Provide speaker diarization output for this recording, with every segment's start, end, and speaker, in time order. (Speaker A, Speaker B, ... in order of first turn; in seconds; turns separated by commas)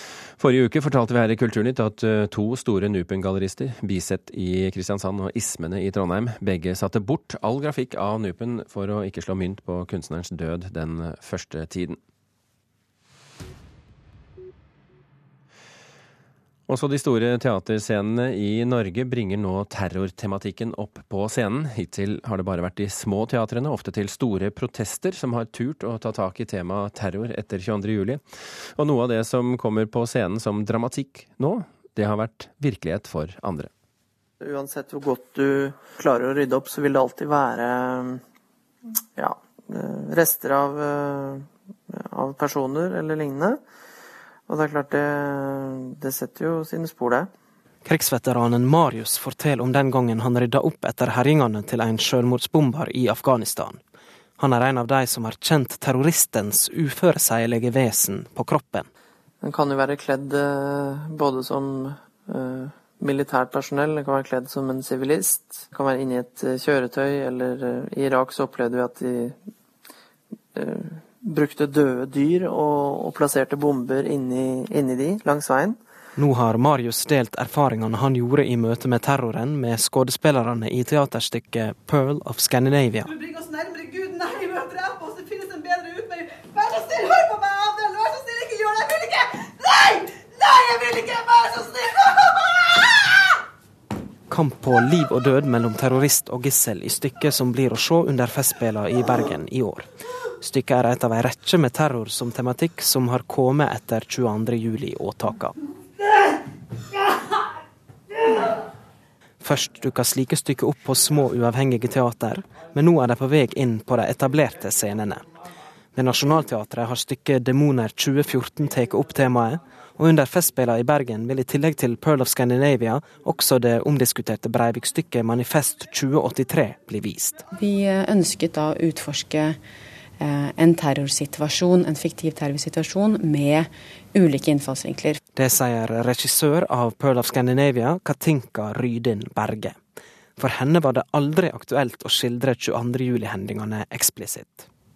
Speaker A: 0.4-12.0, Speaker A: 16.7-33.7, Speaker B: 34.4-38.2, Speaker B: 39.1-43.6, Speaker B: 44.5-47.3, Speaker C: 47.8-53.8, Speaker C: 54.4-58.9, Speaker B: 59.4-69.4, Speaker B: 70.5-75.8, Speaker C: 76.2-83.1, Speaker D: 83.0-93.2, Speaker C: 94.3-99.9, Speaker C: 100.4-105.5, Speaker C: 109.4-115.2, Speaker C: 115.9-127.4, Speaker E: 127.5-129.6, Speaker E: 130.2-135.2, Speaker C: 135.3-139.8, Speaker C: 140.4-144.7